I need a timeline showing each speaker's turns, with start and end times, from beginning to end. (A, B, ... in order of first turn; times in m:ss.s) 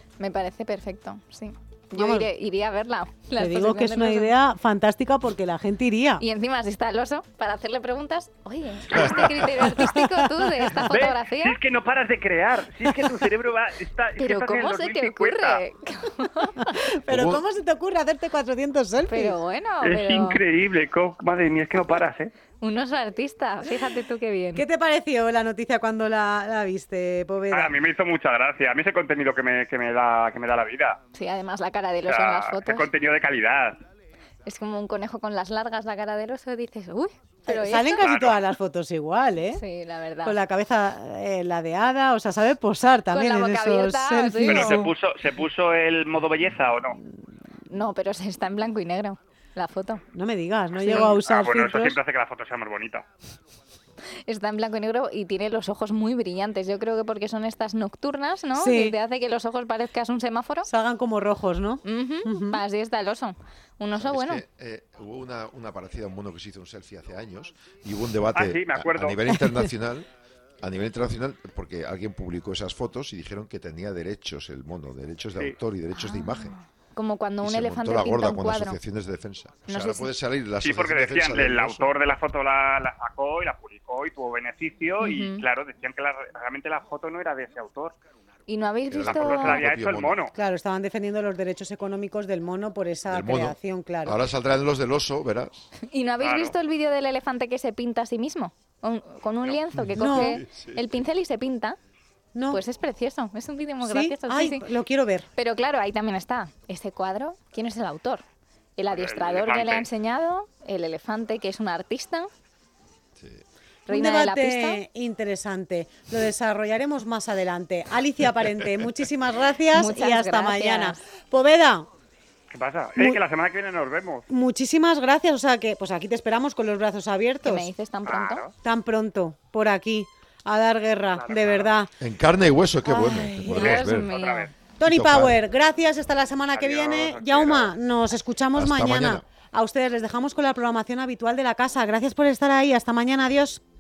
0:00.2-0:04.4 A
0:01.9-0:02.3 B
0:03.4-0:06.2 B
0:06.2-0:11.6 A
0:08.9-0:09.7 C
0:09.8-0:10.4 B
0:10.8-0:15.6 D
0:14.2-0:16.9 A
0:16.6-0:19.4 B
0:17.1-0:17.4 C
0:19.1-0:20.4 A
0:19.8-0:22.3 D
0:22.6-0:24.7 A
0:24.6-0:27.8 B
0:27.5-0:31.0 D
0:31.2-0:32.9 A
0:32.1-0:33.8 D
0:34.4-0:38.1 A
0:37.5-0:39.6 B
0:38.0-0:38.4 D
0:39.5-0:40.4 A
0:40.2-0:44.9 B
0:43.1-0:44.9 A
0:44.4-0:47.0 D
0:47.7-0:50.0 A
0:50.1-0:52.0 B
0:50.9-0:51.1 A
0:50.9-0:53.0 D
0:54.3-1:00.7 A
0:58.6-0:59.0 B
1:00.7-1:02.6 B
1:01.8-1:04.4 A
1:04.0-1:10.1 C
1:08.4-1:09.2 D
1:10.6-1:16.5 C
1:15.9-1:18.8 A
1:17.4-1:21.9 C
1:19.7-1:20.1 A
1:20.6-1:28.0 D
1:25.0-1:25.4 A
1:28.5-1:29.6 A
1:28.9-1:30.3 C
1:29.0-1:30.4 D
1:30.4-1:34.2 B
1:33.1-1:35.6 C
1:35.8-1:41.8 A
1:36.2-1:36.6 D
1:39.8-1:40.9 C
1:40.0-1:40.4 B
1:42.4-1:42.6 B
1:42.5-1:44.7 A
1:43.8-1:45.3 B
1:45.4-1:48.2 A
1:48.8-1:52.3 A
1:48.9-1:49.9 D
1:53.9-1:54.8 A
1:53.9-2:01.9 B
1:59.7-2:01.0 A
2:02.5-2:04.3 D
2:03.0-2:03.2 B
2:04.3-2:07.7 B
2:07.4-2:08.5 A
2:08.1-2:08.5 D
2:08.6-2:11.9 B
2:11.2-2:11.7 D
2:12.0-2:14.1 C
2:12.8-2:13.9 B
2:13.4-2:14.5 A
2:13.6-2:14.5 D
2:14.8-2:23.6 B
2:14.8-2:15.4 C
2:16.5-2:17.8 D
2:18.5-2:19.2 C